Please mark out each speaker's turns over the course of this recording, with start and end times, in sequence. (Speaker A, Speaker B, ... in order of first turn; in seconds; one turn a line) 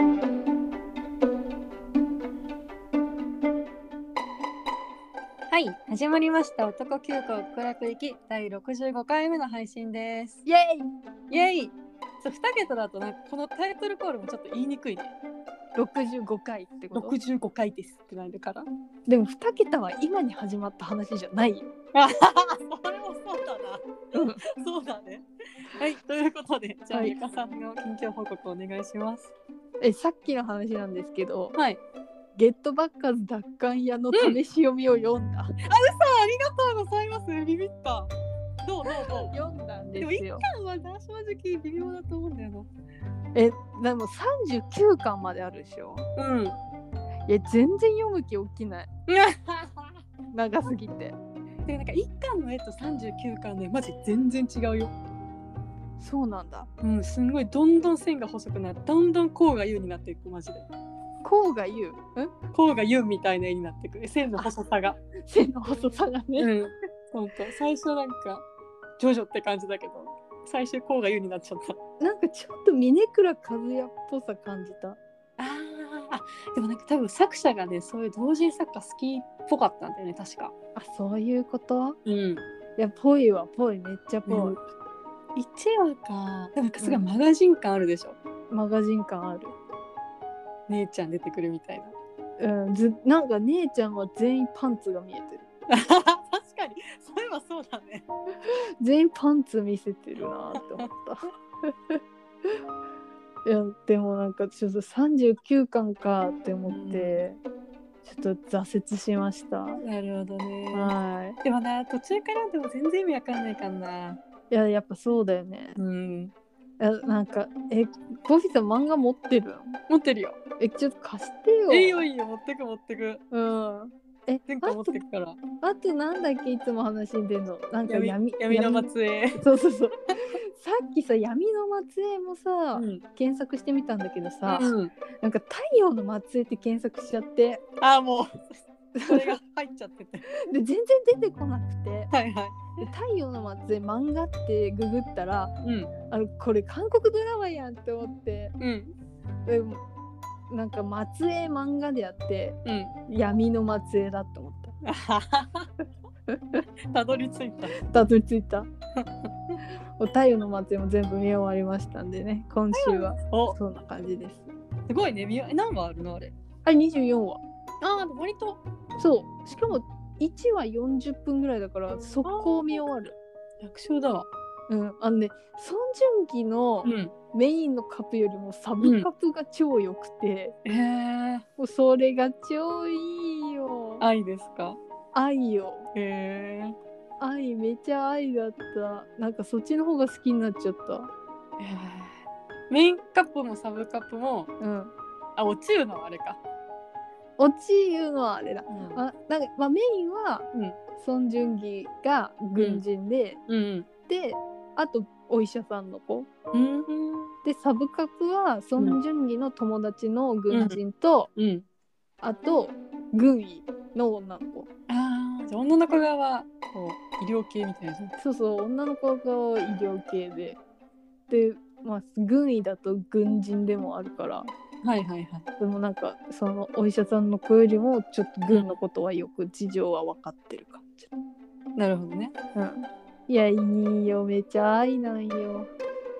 Speaker A: 5.5-10.4
Speaker B: 10.4-10.9
Speaker A: 11.3-15.1
Speaker B: 15.7-17.1
Speaker A: 16.9-18.7
Speaker B: 19.1-21.7
Speaker A: 21.9-25.2
Speaker B: 24.1-24.4
Speaker A: 25.8-29.3
Speaker B: 29.8-31.6
Speaker A: 31.5-31.8
Speaker B: 32.4-35.5
Speaker A: 34.1-34.4
Speaker A: 35.6-39.3
Speaker B: 38.9-40.4
Speaker A: 40.0-42.7
Speaker B: 43.3-46.1
Speaker A: 46.1-46.5
Speaker B: 47.3-48.9
Speaker A: 49.1-49.9
Speaker B: 50.3-51.2
Speaker A: 51.6-54.9
Speaker B: 56.0-56.7
Speaker A: 56.8-60.7
Speaker B: 61.2-62.0
Speaker A: 62.1-65.0
Speaker B: 65.2-66.5
Speaker A: 66.4-68.4
Speaker A: 69.0-71.8
Speaker B: 72.0-75.0
Speaker A: 75.4-80.5
Speaker B: 80.7-82.0
Speaker A: 82.0-82.4
Speaker B: 82.8-84.6
Speaker A: 84.3-84.6
Speaker A: 85.3-88.2
Speaker B: 88.5-89.5
Speaker A: 90.7-91.9
Speaker B: 92.4-95.5
Speaker A: 95.7-98.0
Speaker B: 98.4-102.0
Speaker A: 100.5-100.9
Speaker B: 103.4-107.4
Speaker A: 106.7-107.2
Speaker B: 108.0-109.8
Speaker A: 109.8-114.2
Speaker B: 110.7-111.4
Speaker B: 114.5-115.8
Speaker A: 115.8-116.3
Speaker B: 116.8-119.8
Speaker A: 119.9-120.4
Speaker B: 120.6-122.0
Speaker A: 121.7-123.2
Speaker B: 123.3-125.0
Speaker A: 124.5-125.4
Speaker B: 125.6-137.6
Speaker A: 127.8-129.4
Speaker A: 132.7-133.0
Speaker A: 134.5-134.9
Speaker A: 137.8-140.2
Speaker B: 138.9-139.4
Speaker B: 140.3-142.1
Speaker A: 142.1-142.8
Speaker B: 142.8-145.5
Speaker A: 145.6-145.9
Speaker B: 146.1-148.5
Speaker A: 148.6-148.9
Speaker B: 149.4-149.8
Speaker B: 150.5-154.7
Speaker A: 152.6-152.9
Speaker A: 154.8-155.7
Speaker B: 156.3-156.6
Speaker A: 156.9-157.7
Speaker B: 157.7-158.7
Speaker A: 159.0-159.6
Speaker B: 160.0-164.5
Speaker A: 162.7-163.6
Speaker A: 164.9-166.3
Speaker B: 166.6-167.4
Speaker A: 167.8-168.6
Speaker B: 169.0-173.2
Speaker A: 172.2-172.8
Speaker A: 173.6-174.3
Speaker B: 174.7-180.6
Speaker A: 176.8-177.1
Speaker A: 178.8-179.1
Speaker A: 180.6-181.4
Speaker B: 181.6-184.0
Speaker A: 184.0-184.8
Speaker B: 185.1-185.9
Speaker A: 185.9-186.8
Speaker B: 187.2-191.1
Speaker A: 191.6-192.2
Speaker A: 192.7-194.5
Speaker B: 194.6-194.9
Speaker A: 195.3-196.4
Speaker B: 197.4-203.4
Speaker A: 198.7-199.0
Speaker A: 200.5-200.8
Speaker A: 202.6-202.8
Speaker A: 203.5-203.9
Speaker B: 204.1-206.3
Speaker A: 206.5-207.3
Speaker B: 207.4-211.3
Speaker A: 210.5-210.8
Speaker A: 211.3-211.6
Speaker B: 212.2-214.7
Speaker A: 214.9-218.1
Speaker B: 218.2-220.6
Speaker B: 221.3-224.5
Speaker A: 224.8-225.4
Speaker B: 225.6-231.1
Speaker A: 228.5-228.8
Speaker A: 231.8-232.3
Speaker B: 232.5-235.7